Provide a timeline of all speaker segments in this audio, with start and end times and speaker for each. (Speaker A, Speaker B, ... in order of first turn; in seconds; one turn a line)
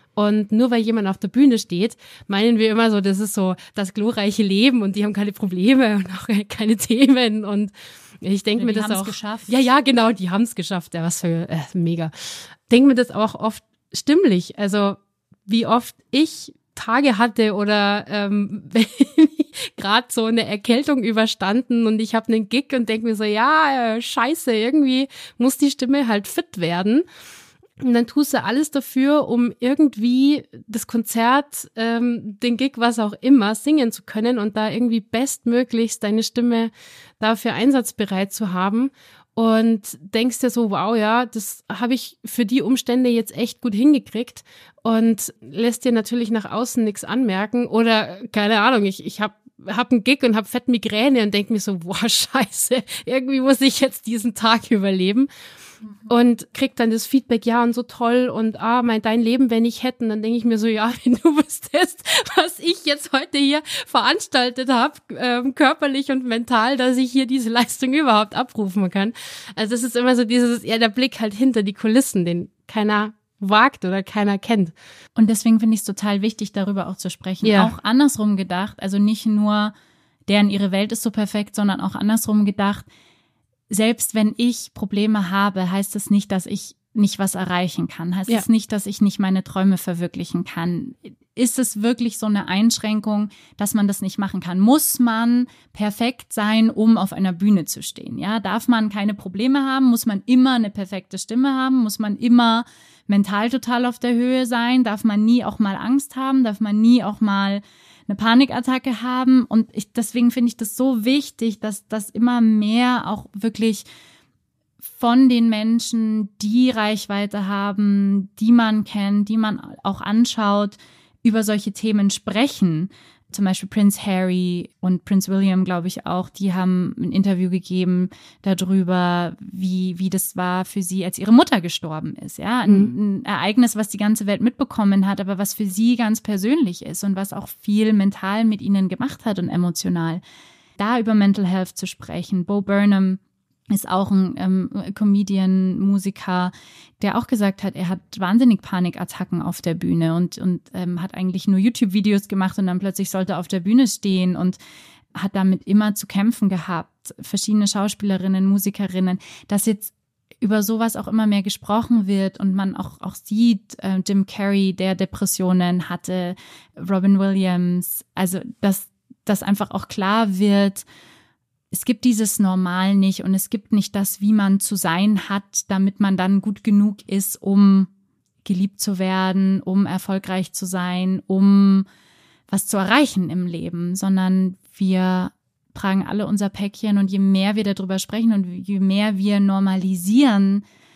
Speaker A: 0.1-27.0
Speaker B: 8.6-9.5
Speaker A: 27.8-55.3
Speaker A: 56.1-74.7
Speaker B: 75.2-79.7
Speaker A: 77.4-77.7
Speaker B: 80.3-82.9
Speaker B: 83.7-113.8
Speaker B: 114.9-140.2
Speaker A: 132.7-132.9
Speaker B: 140.8-154.6
Speaker B: 155.1-170.8
Speaker B: 171.7-177.9
Speaker B: 178.4-181.8
Speaker B: 182.5-190.6